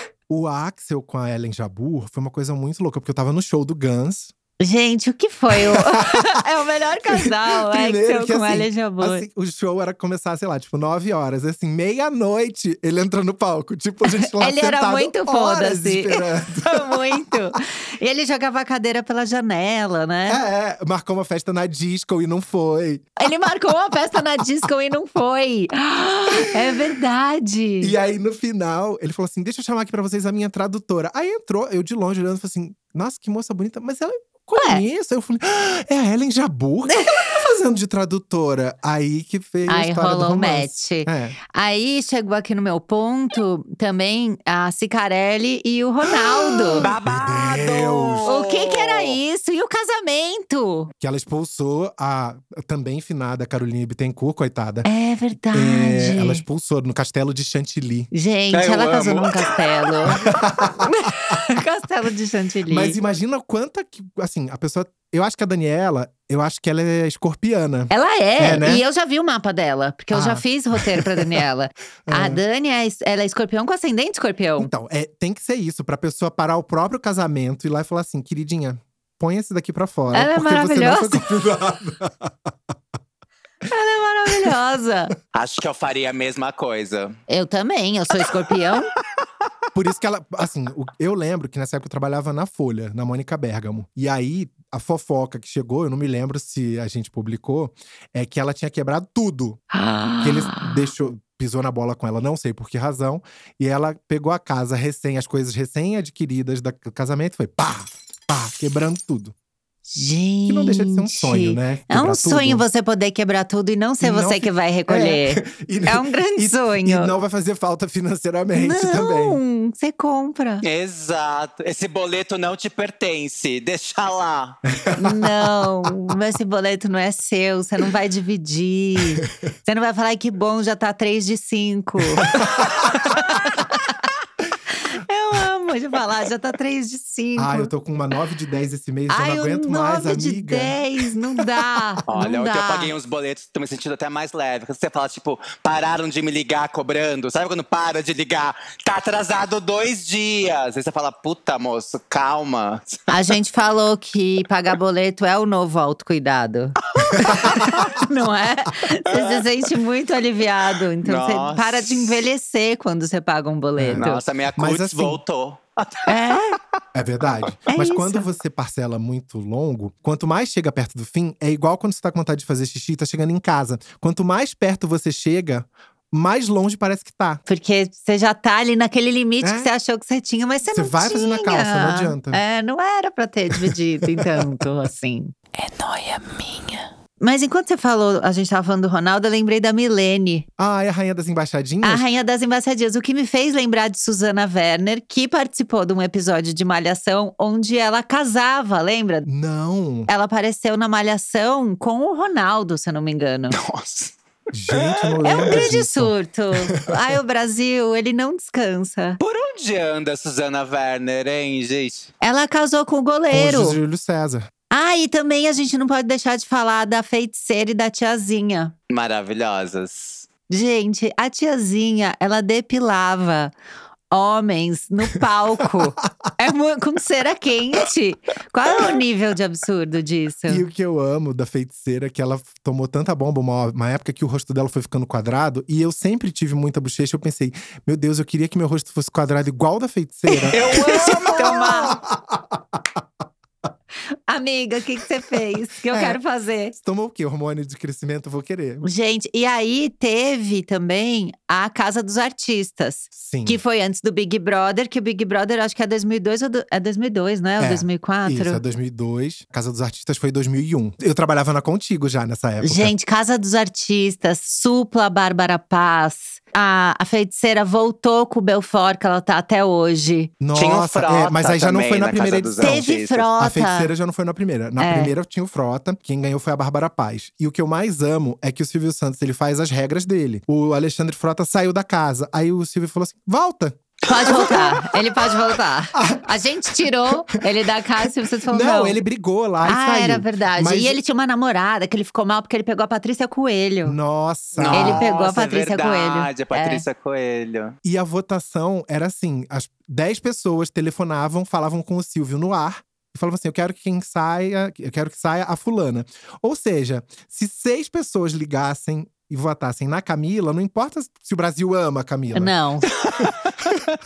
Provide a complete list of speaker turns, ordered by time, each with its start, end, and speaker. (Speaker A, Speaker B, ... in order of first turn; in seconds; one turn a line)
Speaker A: 0.3-4.3
Speaker B: 4.6-9.2
Speaker A: 5.5-6.4
Speaker A: 7.1-17.6
Speaker B: 14.0-20.4
Speaker A: 20.3-23.1
Speaker B: 23.2-27.9
Speaker A: 27.8-41.4
Speaker B: 34.5-34.8
Speaker B: 36.9-37.3
Speaker B: 39.7-46.9
Speaker A: 46.1-48.3
Speaker C: 46.8-49.2
Speaker B: 48.2-50.9
Speaker A: 51.0-54.9
Speaker B: 54.8-56.4
Speaker A: 55.5-58.1
Speaker B: 58.1-60.2
Speaker C: 58.5-60.3
Speaker A: 60.1-61.4
Speaker B: 60.8-63.0
Speaker A: 62.7-68.8
Speaker B: 67.9-74.7
Speaker A: 70.1-71.4
Speaker A: 72.0-72.4
Speaker A: 74.6-82.3
Speaker B: 80.1-81.2
Speaker B: 83.7-85.1
Speaker C: 85.3-87.2
Speaker B: 87.3-88.9
Speaker A: 89.7-99.6
Speaker B: 99.7-100.8
Speaker A: 100.2-109.3
Speaker B: 109.9-117.1
Speaker A: 110.5-112.6
Speaker A: 114.0-119.4
Speaker B: 118.5-120.6
Speaker C: 120.6-124.6
Speaker A: 124.7-126.1
Speaker B: 124.9-134.0
Speaker A: 132.2-133.1
Speaker B: 134.7-137.7
Speaker A: 137.4-140.8
Speaker B: 139.1-142.9
Speaker C: 142.1-153.3
Speaker B: 153.1-164.2
Speaker C: 156.9-157.9
Speaker A: 157.2-157.9
Speaker C: 159.1-159.4
Speaker C: 161.0-162.1
Speaker A: 163.8-165.2
Speaker C: 164.0-166.3
Speaker B: 166.1-166.6
Speaker A: 166.9-177.4
Speaker B: 167.7-168.3
Speaker B: 177.5-190.4
Speaker A: 179.4-179.7
Speaker A: 180.7-182.4
Speaker A: 183.6-184.6
Speaker A: 190.6-192.1
Speaker B: 191.8-199.3
Speaker A: 199.2-200.1
Speaker B: 200.1-203.6
Speaker C: 203.5-204.2
Speaker A: 204.5-206.1
Speaker C: 204.7-205.6
Speaker B: 205.2-209.2
Speaker C: 209.2-212.1
Speaker B: 212.2-213.8
Speaker A: 213.3-214.5
Speaker B: 214.7-218.7
Speaker C: 218.9-220.3
Speaker B: 220.5-223.5
Speaker B: 224.1-230.6
Speaker A: 230.5-240.6
Speaker B: 240.3-242.0
Speaker C: 240.5-241.8
Speaker A: 241.4-243.0
Speaker B: 244.3-246.7
Speaker A: 245.9-246.2
Speaker A: 246.7-248.9
Speaker B: 248.8-258.6
Speaker A: 253.1-253.6
Speaker A: 257.6-262.9
Speaker B: 262.6-270.3
Speaker A: 270.4-284.8
Speaker C: 270.5-273.3
Speaker B: 272.6-273.9
Speaker B: 274.8-275.1
Speaker B: 284.1-289.0
Speaker C: 284.1-284.9
Speaker A: 285.9-287.1
Speaker A: 288.1-291.0
Speaker B: 289.6-294.0
Speaker A: 293.8-295.1
Speaker C: 294.6-297.7
Speaker B: 294.7-296.8
Speaker A: 297.8-312.5
Speaker B: 312.3-312.9
Speaker C: 313.0-313.8